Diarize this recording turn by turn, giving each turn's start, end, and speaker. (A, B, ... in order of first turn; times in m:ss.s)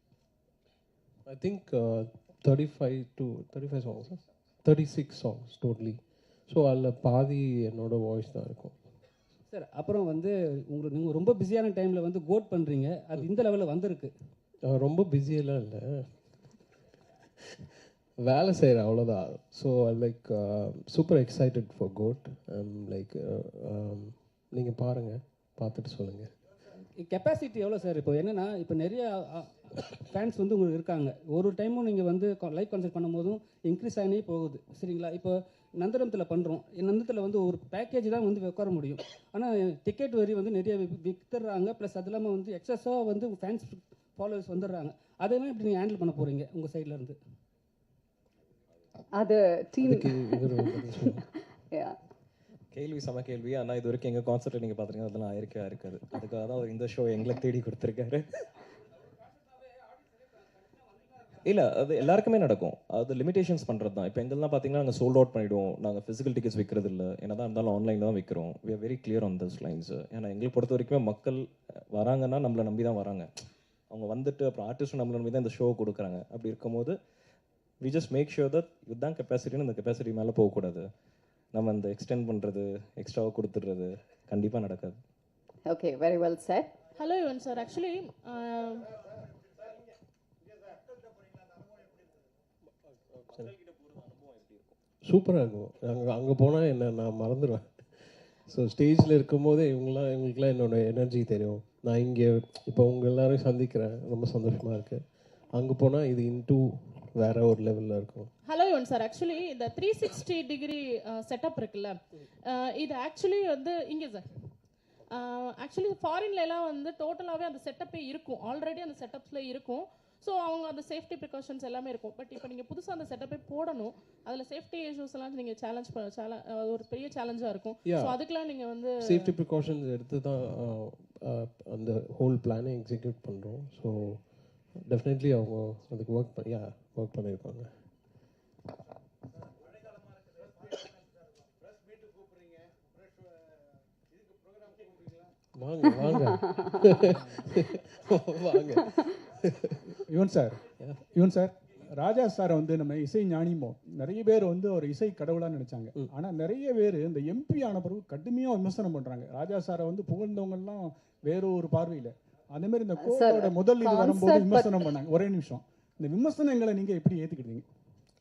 0:01.3-0:08.8 A
0:09.5-0:14.1 B
0:14.6-0:16.4 A
0:18.2-0:26.3 A
0:27.0-0:47.2 B
0:49.1-0:51.1 C
0:49.8-0:51.2 A
0:51.7-0:52.0 C
0:52.7-0:58.3 D
1:01.4-1:13.3 D
1:13.9-1:17.0 D
1:17.8-1:20.9 D
1:21.5-1:25.0 D
1:25.7-1:26.7 C
1:27.0-1:29.0 E
1:33.7-1:34.6 D
1:35.0-1:48.3 A
1:48.4-1:54.3 E
1:55.1-2:09.3 E
2:07.8-2:08.2 A
2:09.0-2:17.7 A
2:25.5-2:29.9 A
2:27.1-2:27.5 B
2:30.1-2:47.7 F
2:30.8-2:31.0 A
2:43.0-2:44.8 C